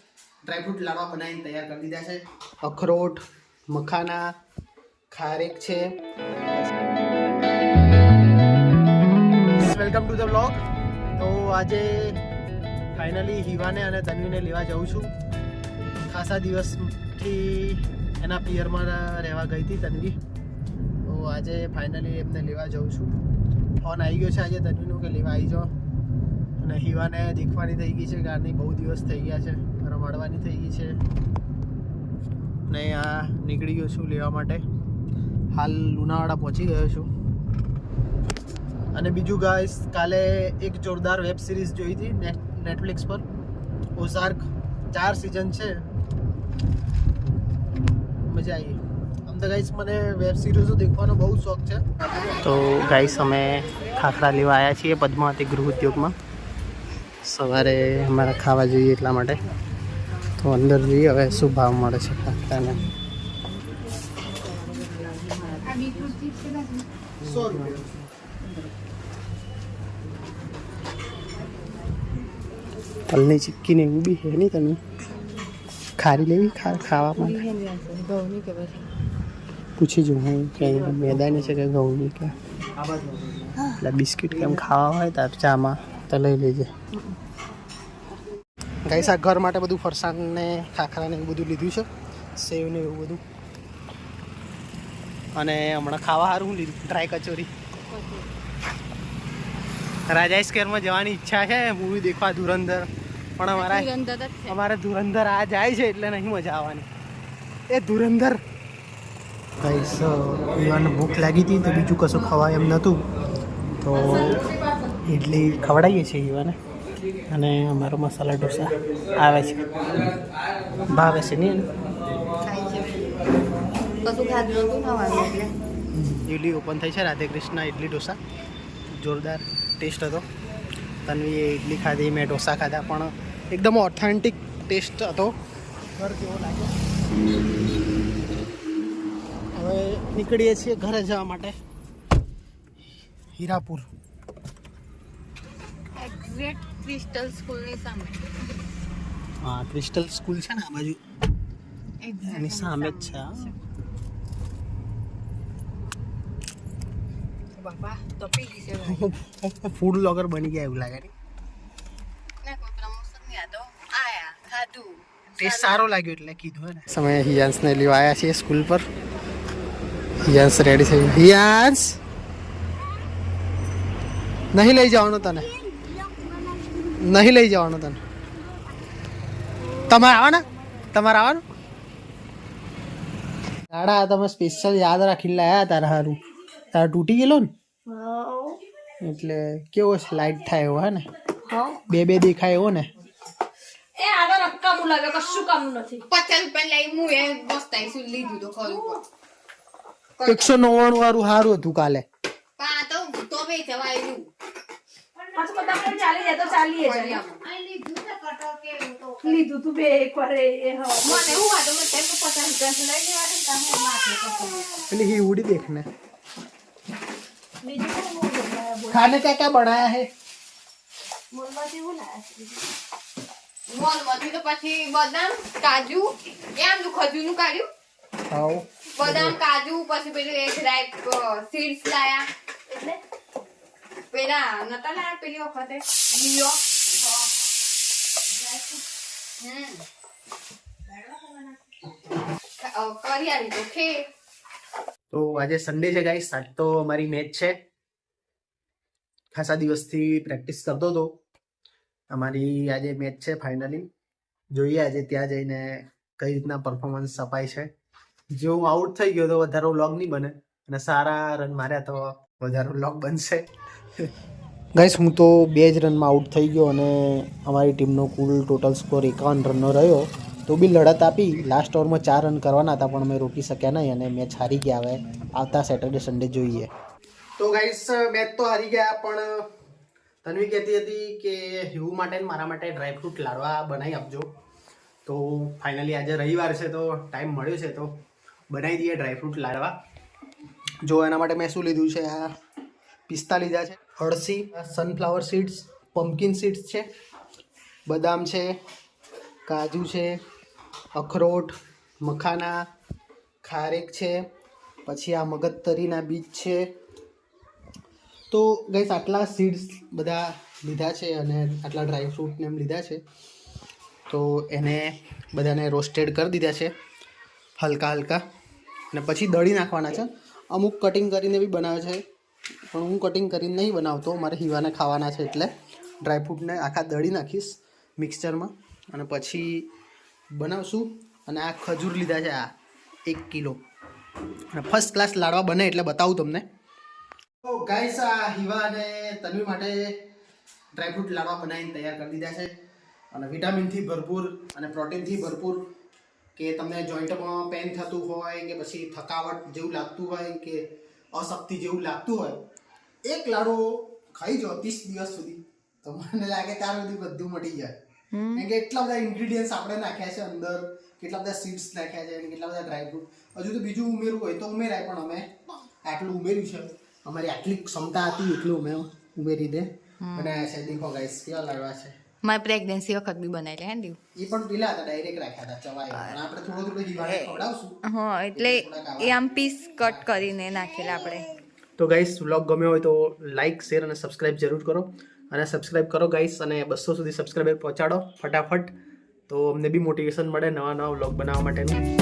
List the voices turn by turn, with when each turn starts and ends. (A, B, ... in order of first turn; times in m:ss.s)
0:00.4-0:04.3 A
0:05.1-0:05.9 A
0:09.5-0:10.6 A
0:11.2-0:12.2 A
0:12.9-0:15.1 A
0:16.1-0:20.2 A
0:21.1-0:23.1 A
0:23.8-0:25.7 A
0:26.6-0:31.0 A
0:32.7-0:34.6 A
0:35.5-0:37.1 A
0:38.9-0:43.2 A
0:44.0-0:45.8 A
0:48.2-0:51.8 A
0:52.4-0:56.2 A
0:57.2-0:59.4 A
1:00.4-1:02.8 A
1:04.6-1:06.8 B
1:07.2-1:07.9 A
1:13.1-1:14.8 A
1:16.0-1:17.4 A
1:16.6-1:18.9 B
1:19.8-1:26.7 A
1:28.8-1:33.2 A
1:35.4-1:37.5 A
1:37.9-1:38.3 B
1:40.1-1:43.9 A
1:43.6-1:44.6 B
1:44.5-1:46.9 A
1:47.7-1:48.4 A
1:49.6-1:53.0 A
1:53.8-1:54.5 A
1:55.1-1:56.6 A
1:57.3-2:00.2 A
2:00.8-2:01.7 A
2:02.4-2:03.0 B
2:04.0-2:05.5 B
2:06.1-2:08.2 A
2:08.9-2:10.3 A
2:11.0-2:15.3 A
2:16.0-2:16.8 A
2:19.6-2:21.6 A
2:23.4-2:23.9 A
2:26.0-2:28.4 B
2:29.4-2:31.0 A
2:32.0-2:33.6 B
2:32.2-2:33.5 A
2:37.6-2:39.0 B
2:38.8-2:41.1 A
2:42.4-2:45.8 B
2:45.4-2:48.8 A
2:50.2-2:52.0 A
2:54.5-2:55.5 A
2:57.0-2:58.0 A
2:59.6-3:00.4 C
2:59.8-3:01.4 A
3:03.7-3:07.5 A
3:07.9-3:08.6 C
3:09.0-3:11.0 A
3:11.4-3:11.8 C
3:11.8-3:12.9 A
3:14.0-3:16.0 C
3:16.1-3:19.0 B
3:20.2-3:20.6 B
3:20.2-3:22.0 A
3:22.6-3:24.3 B
3:25.2-3:31.5 C
3:25.5-3:27.4 B
3:31.0-3:34.8 B
3:34.8-3:35.9 A
3:37.6-3:39.2 C
3:38.9-3:40.1 A
3:41.3-3:42.6 C
3:43.7-3:47.7 B
3:48.3-3:49.4 A
3:49.0-3:52.3 B
3:54.1-3:57.4 B
3:59.4-3:59.9 B
4:02.6-4:04.1 B
4:05.1-4:07.6 A
4:09.3-4:11.2 A
4:12.1-4:13.9 A
4:14.5-4:17.7 A
4:18.3-4:23.4 A
4:24.8-4:36.7 A
4:37.4-4:39.5 A
4:40.2-4:44.3 A
4:45.0-4:49.8 A
4:50.8-4:52.3 A
4:53.1-4:56.9 A
4:57.9-4:58.6 A
4:59.5-5:00.2 A
5:01.0-5:02.6 A
5:03.4-5:04.2 A
5:04.9-5:06.7 A
5:08.3-5:13.0 A
5:14.1-5:16.7 A
5:17.6-5:18.2 A
5:18.9-5:22.0 A
5:22.7-5:29.7 A
5:30.3-5:32.5 A
5:33.1-5:33.6 A
5:34.5-5:36.4 A
5:37.4-5:40.0 A
5:40.8-5:42.5 A
5:43.1-5:45.7 A
5:46.4-5:52.4 A
5:53.0-5:57.7 A
5:58.1-5:58.4 B
5:58.3-6:05.3 A
6:05.8-6:12.0 A
6:10.0-6:10.4 B
6:12.2-6:14.0 B
6:14.2-6:17.8 A
6:15.9-6:16.2 B
6:17.0-6:21.3 B
6:18.3-6:19.2 A
6:19.8-6:20.5 A
6:21.8-6:28.7 A
6:29.3-6:31.8 A